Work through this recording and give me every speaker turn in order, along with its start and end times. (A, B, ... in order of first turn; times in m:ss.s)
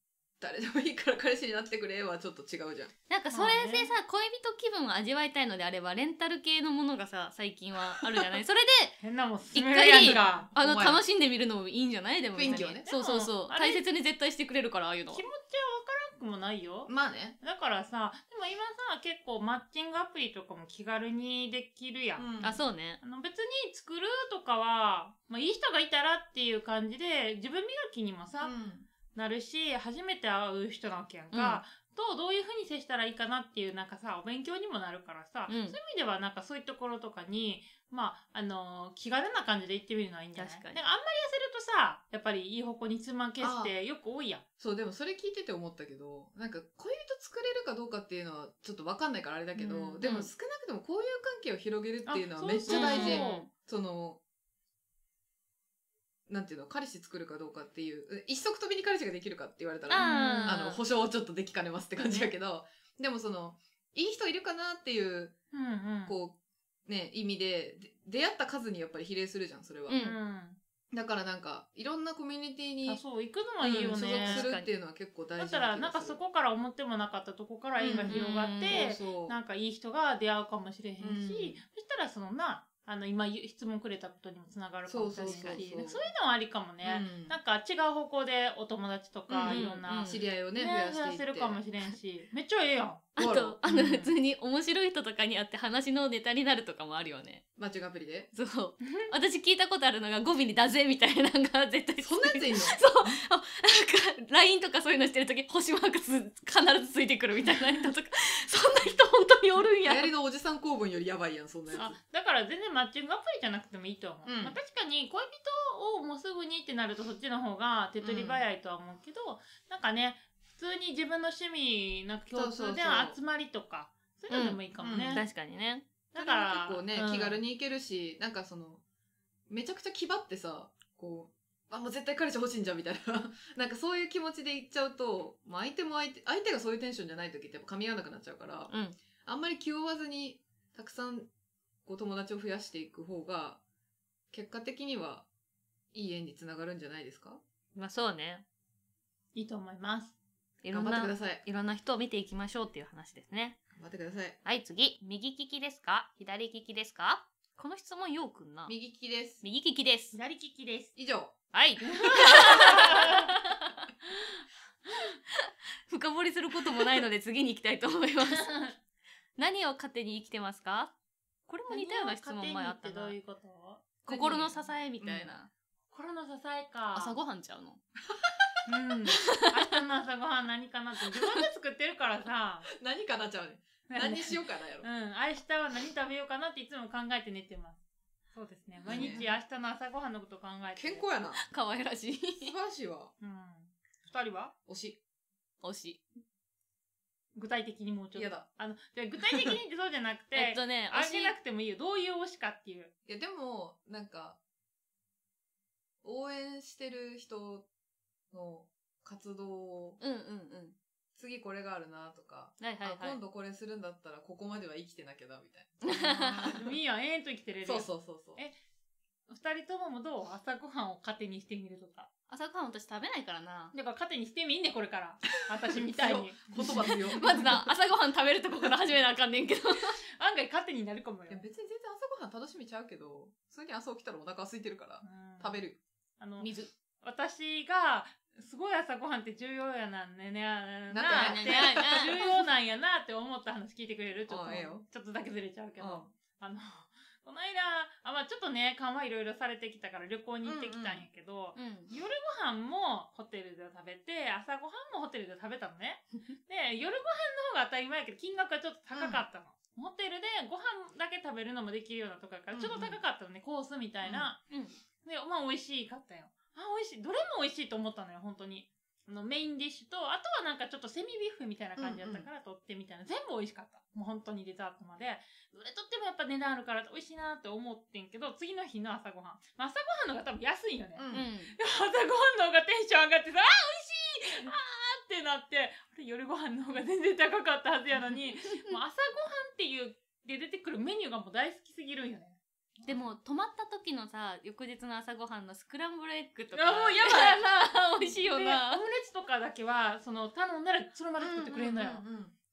0:00.4-0:02.9 A
0:03.1-0:09.0 B
0:03.3-0:03.9 C
0:08.0-0:08.2 A
0:09.0-0:10.5 C
0:09.5-0:15.2 B
0:10.0-0:11.0 A
0:12.3-0:12.9 A
0:12.4-0:13.8 C
0:15.1-0:22.3 C
0:16.8-0:17.4 A
0:22.2-0:22.6 A
0:22.4-0:23.0 B
0:23.0-0:28.5 C
0:28.4-0:28.9 A
0:29.1-0:44.4 C
0:31.3-0:31.6 B
0:35.5-0:35.8 B
0:40.4-0:40.8 B
0:43.4-0:43.7 A
0:44.6-0:54.2 A
0:49.6-0:49.8 C
0:50.0-0:50.3 B
0:52.0-0:53.5 C
0:52.7-0:53.5 B
0:56.3-1:05.4 A
0:59.9-1:00.8 B
0:59.9-1:00.6 C
1:02.0-1:02.3 B
1:05.5-1:06.2 C
1:06.0-1:10.0 A
1:09.9-1:10.2 B
1:09.9-1:10.6 C
1:10.9-1:13.0 A
1:12.8-1:14.4 C
1:13.6-1:16.2 A
1:14.0-1:14.7 B
1:15.4-1:33.1 C
1:17.8-1:19.4 A
1:17.8-1:18.9 B
1:21.0-1:21.6 A
1:24.9-1:26.1 A
1:25.2-1:25.6 B
1:26.8-1:27.4 A
1:29.3-1:31.6 A
1:29.5-1:30.2 B
1:33.2-1:34.0 A
1:33.2-1:37.4 B
1:33.6-1:34.1 C
1:37.6-1:38.3 A
1:38.3-1:50.1 B
1:38.8-1:39.1 C
1:42.0-1:43.2 A
1:49.8-1:52.0 A
1:51.7-2:05.2 C
1:54.2-1:54.6 A
1:58.0-1:58.4 A
2:02.3-2:03.2 A
2:04.3-2:05.9 B
2:04.8-2:05.2 A
2:06.1-2:07.4 C
2:06.1-2:08.8 A
2:09.5-2:18.7 A
2:18.7-2:19.0 B
2:19.2-2:21.3 A
2:21.8-2:23.6 A
2:24.3-2:25.3 A
2:25.9-2:27.4 A
2:27.7-2:28.4 B
2:29.3-2:30.1 C
2:30.6-2:33.6 B
2:30.7-2:31.4 A
2:33.8-2:34.4 A
2:34.4-2:38.8 B
2:38.7-2:39.4 A
2:39.4-2:40.2 B
2:40.1-2:40.9 C
2:41.0-2:41.3 A
2:41.5-2:43.7 B
2:41.8-2:43.3 C
2:45.3-2:48.5 B
2:48.2-2:48.8 C
2:49.4-2:50.9 B
2:51.5-2:53.2 B
2:51.7-2:53.9 C
2:54.0-2:55.5 B
2:54.1-2:55.4 A
2:55.9-2:57.2 C
2:56.9-2:57.8 B
2:58.1-2:58.5 A
2:58.6-3:02.7 C
2:59.2-2:59.5 B
3:02.7-3:04.9 A
3:03.9-3:07.8 C
3:08.3-3:11.0 C
3:08.8-3:09.2 A
3:08.9-3:09.3 B
3:10.8-3:11.4 A
3:11.4-3:12.5 B
3:12.4-3:13.1 A
3:13.2-3:14.5 C
3:14.7-3:15.0 A
3:15.6-3:16.0 B
3:17.3-3:22.9 C
3:18.1-3:18.4 A
3:20.3-3:21.4 B
3:23.0-3:24.4 A
3:26.0-3:27.7 A
3:28.3-3:30.0 A
3:30.0-3:30.8 B
3:31.2-3:36.6 A
3:32.6-3:33.2 B
3:35.8-3:36.6 B
3:36.4-3:38.5 C
3:37.6-3:38.4 A
3:39.3-3:42.1 C
3:42.3-3:43.7 B
3:43.7-3:47.4 C
3:45.8-3:47.7 A
3:46.6-3:50.0 B
3:50.2-3:51.5 C
3:51.3-3:55.8 A
3:55.0-3:55.6 C
3:56.2-4:24.4 C
3:56.4-3:56.6 B
4:00.9-4:02.2 A
4:01.1-4:02.2 B
4:04.3-4:04.8 A
4:05.8-4:06.1 A
4:10.4-4:11.1 A
4:11.6-4:11.9 B
4:18.9-4:19.2 A
4:22.5-4:23.0 A
4:24.0-4:24.3 A
4:25.0-4:53.0 C
4:31.8-4:32.3 A
4:41.0-4:41.3 A
4:41.1-4:41.5 B
4:52.9-4:58.8 B
4:56.5-4:57.5 C
4:58.0-5:02.0 C
5:01.2-5:02.3 A